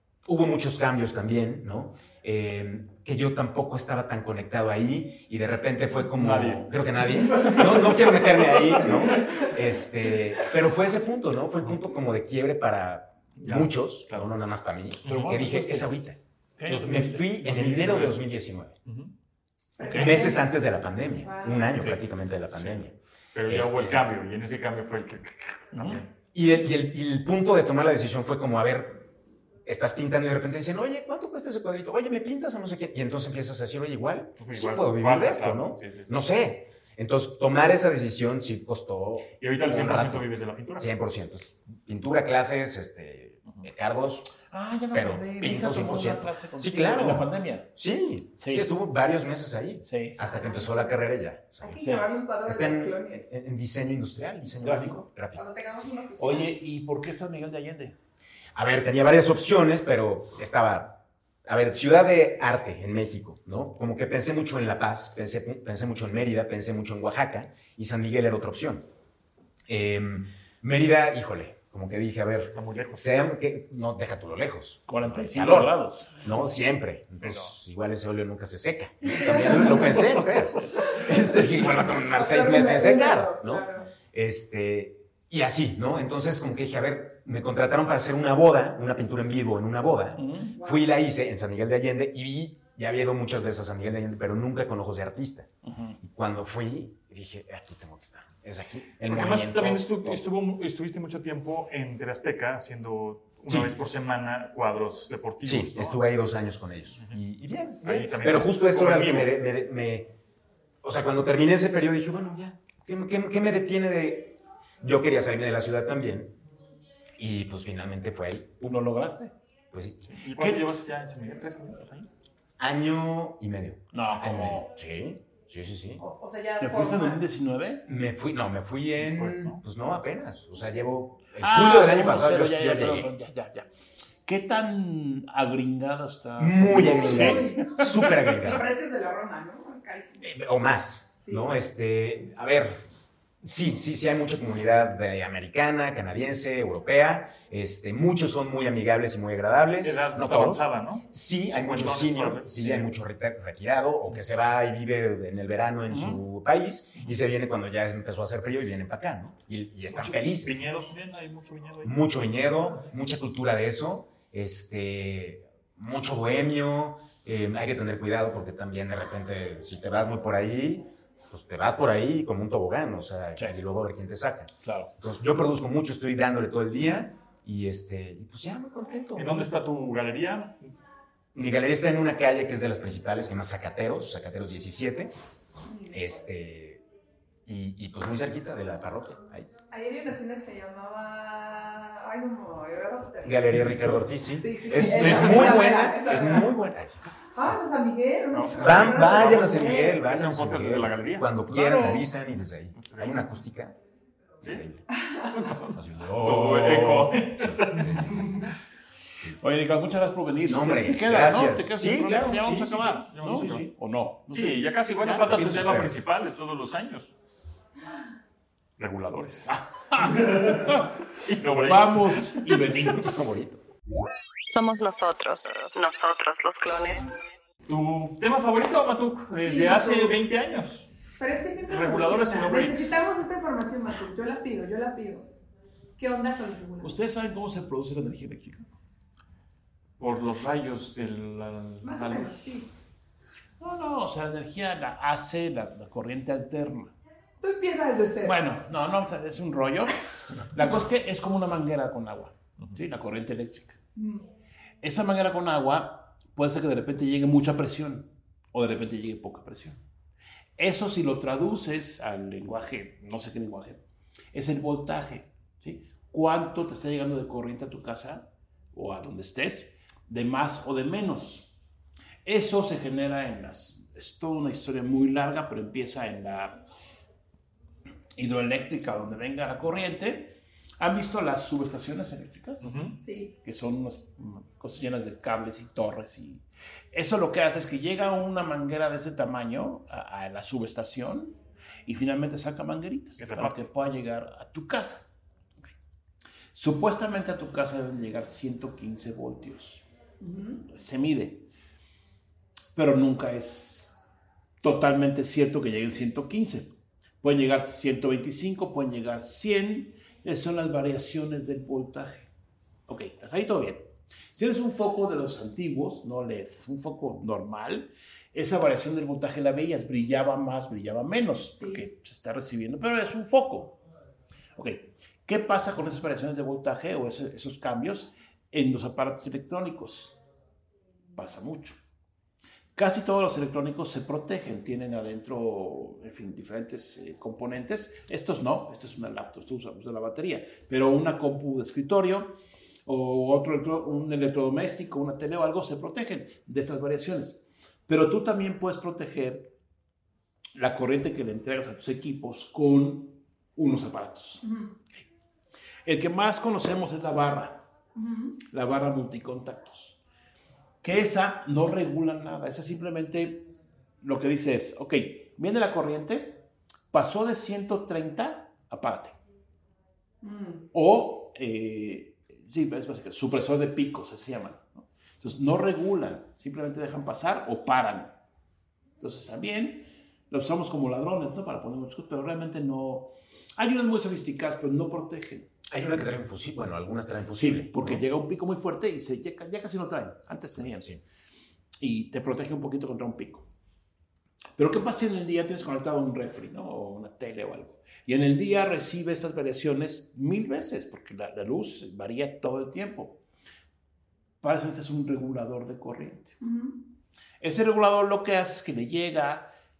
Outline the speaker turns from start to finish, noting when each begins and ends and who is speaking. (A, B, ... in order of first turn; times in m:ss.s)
0:00.2-0:18.7 A
0:06.1-0:09.5 B
0:13.4-0:14.3 B
0:15.0-0:15.4 B
0:15.1-0:15.9 C
0:16.6-0:17.2 C
0:16.7-0:18.2 B
0:18.8-0:19.1 B
0:19.8-0:20.5 D
0:19.8-0:20.2 C
0:19.9-0:22.9 A
0:21.2-0:21.7 D
0:23.3-0:26.1 B
0:23.5-0:24.1 A
0:25.7-0:26.0 C
0:26.3-0:29.0 A
0:29.6-0:44.3 A
0:34.4-0:36.1 B
0:39.4-0:40.9 B
0:44.5-0:47.7 C
0:44.9-0:51.8 A
0:48.4-0:48.7 C
0:49.8-0:50.4 C
0:50.3-0:50.9 D
0:51.6-0:53.2 D
0:51.8-0:52.1 C
0:52.4-0:55.4 A
0:54.6-0:55.0 C
0:55.3-0:56.5 D
0:56.2-0:58.0 C
0:58.5-1:08.8 A
1:09.7-1:35.5 A
1:12.5-1:13.1 B
1:14.9-1:16.3 C
1:17.2-1:17.5 B
1:19.1-1:19.7 D
1:20.8-1:23.9 D
1:30.2-1:30.5 C
1:30.5-1:30.9 D
1:35.6-1:36.0 C
1:36.0-1:40.2 A
1:39.1-1:46.0 B
1:43.5-1:43.7 A
1:45.4-1:50.1 A
1:47.8-1:49.3 B
1:50.8-1:56.3 A
1:57.2-1:58.7 A
1:58.6-1:59.3 C
1:59.7-2:00.0 A
2:00.1-2:02.1 B
2:00.4-2:00.6 C
2:02.6-2:06.0 A
2:03.9-2:04.7 C
2:06.0-2:07.2 D
2:06.6-2:07.8 C
2:07.8-2:13.1 A
2:09.0-2:09.6 B
2:11.4-2:13.7 C
2:14.2-2:18.2 C
2:16.4-2:18.6 A
2:16.7-2:20.3 D
2:20.2-2:22.8 A
2:21.2-2:21.5 D
2:23.4-2:40.6 A
2:29.8-2:32.9 B
2:35.9-2:36.2 C
2:39.9-2:42.0 B
2:41.8-2:59.5 A
2:54.6-2:54.9 C
2:59.2-3:00.7 B
3:01.3-3:05.1 A
3:05.6-3:06.2 D
3:05.9-3:06.8 A
3:07.4-3:09.5 A
3:09.7-3:13.6 D
3:13.2-3:17.0 A
3:14.4-3:16.5 D
3:14.8-3:15.7 B
3:17.4-3:19.9 D
3:18.3-3:21.3 B
3:18.6-3:23.8 A
3:21.5-3:22.1 C
3:22.7-3:23.3 B
3:24.4-3:24.8 A
3:24.9-3:25.3 D
3:25.3-3:28.5 B
3:25.7-3:28.5 A
3:26.1-3:27.0 C
3:29.4-3:35.6 C
3:30.4-3:33.0 A
3:32.4-3:33.7 B
3:34.3-3:37.1 B
3:35.2-3:35.9 A
3:38.8-3:39.5 B
3:39.4-3:40.9 C
3:41.2-3:42.6 B
3:41.5-3:43.3 C
3:43.0-3:43.6 A
3:44.5-3:47.1 E
3:47.6-3:50.9 B
3:49.4-3:50.2 D
3:51.2-3:55.3 D
3:51.7-3:53.0 B
3:56.0-3:56.9 D
3:56.8-3:58.7 C
4:00.0-4:02.5 B
4:01.8-4:02.7 D
4:03.6-4:06.9 C
4:07.4-4:08.4 D
4:08.2-4:09.9 C
4:10.5-4:13.8 C
4:14.0-4:14.2 D
4:14.8-4:19.8 C
4:20.6-4:31.5 C
4:32.2-4:36.6 C
4:38.2-4:42.8 C
4:42.6-4:43.0 B
4:43.0-4:43.3 D
4:43.4-4:55.1 C
4:53.2-4:53.6 B
4:56.5-4:59.8 C
5:00.2-5:00.6 D
5:00.6-5:01.5 C
5:02.7-5:04.0 C
5:04.6-5:12.3 C
5:12.9-5:23.8 C
5:21.5-5:21.8 D
5:24.6-5:30.2 C
5:31.2-5:31.8 C
5:32.8-5:49.5 C
5:50.5-5:54.4 C
5:54.4-5:54.7 D
5:55.8-5:57.6 C
5:57.9-5:58.4 D
5:58.4-6:00.0 C
6:00.8-6:09.2 C
6:10.2-6:10.6 D
6:10.7-6:18.1 C
6:19.0-6:25.5 C
6:25.7-6:28.0 A
6:27.4-6:31.0 C
6:31.8-6:33.5 C
6:34.6-6:43.2 C
6:44.4-6:46.4 C
6:46.4-6:46.8 D
6:47.4-6:49.5 C